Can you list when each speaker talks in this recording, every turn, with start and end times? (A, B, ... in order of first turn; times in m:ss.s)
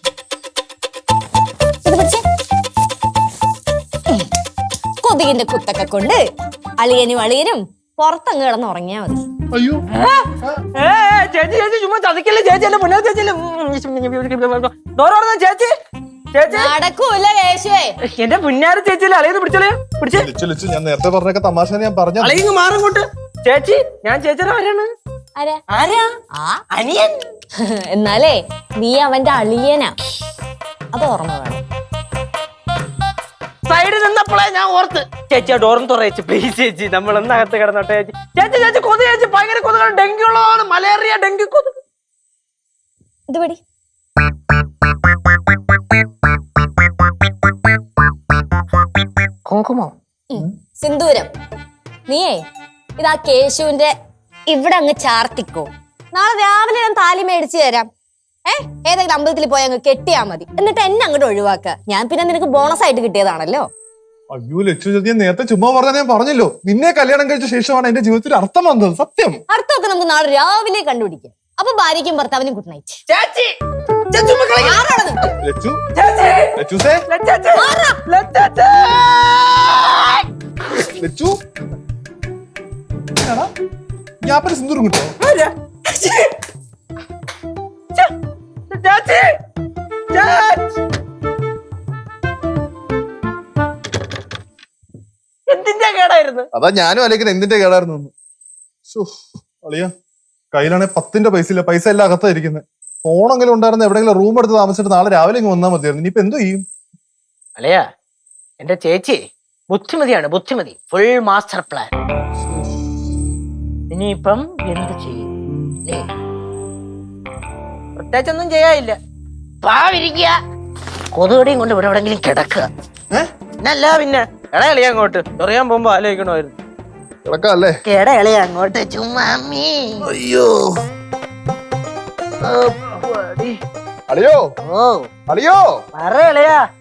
0:01.8-0:02.2 A
0:05.0-0:06.2 A
0:06.8-0:09.2 A
0:09.5-0:09.8 B
0:09.9-0:15.7 C
0:10.4-0:10.6 B
0:16.3-0:16.7 C
0:16.5-0:17.9 A
0:18.1-0:20.3 C
0:20.1-0:22.4 B
0:22.2-0:24.9 C
0:25.7-0:26.1 C
0:26.4-0:26.6 A
0:26.7-0:27.2 C
0:27.9-0:30.0 A
0:30.9-0:31.6 A
0:33.7-0:41.8 C
0:43.3-0:43.6 A
0:49.4-0:49.9 C
0:50.3-0:51.3 A
0:52.1-0:52.4 A
0:53.0-0:53.9 A
0:54.5-0:57.9 A
0:58.5-1:03.6 A
1:04.3-1:09.4 B
1:09.5-1:13.0 A
1:13.1-1:13.5 C
1:14.1-1:14.8 C
1:14.6-1:15.3 A
1:15.4-1:15.8 B
1:15.9-1:16.5 C
1:16.6-1:17.0 B
1:17.1-1:20.2 C
1:17.6-1:18.0 A
1:21.0-1:21.4 B
1:23.1-1:23.5 B
1:24.2-1:25.2 B
1:25.2-1:26.3 C
1:28.7-1:29.3 C
1:30.1-1:30.6 C
1:35.5-1:36.5 C
1:36.5-1:38.1 B
1:39.6-1:39.9 B
1:40.5-1:46.6 B
1:47.6-1:47.9 C
1:48.6-1:51.9 C
1:53.9-1:55.3 C
1:55.5-1:55.8 B
1:58.0-1:59.0 C
1:59.6-2:00.4 C
2:01.1-2:02.7 C
2:03.6-2:06.6 C
2:07.2-2:07.8 B
2:07.9-2:10.2 C
2:10.1-2:10.7 B
2:12.4-2:13.6 C
2:14.1-2:14.4 B
2:14.6-2:15.1 C
2:15.3-2:15.6 B
2:16.0-2:16.6 C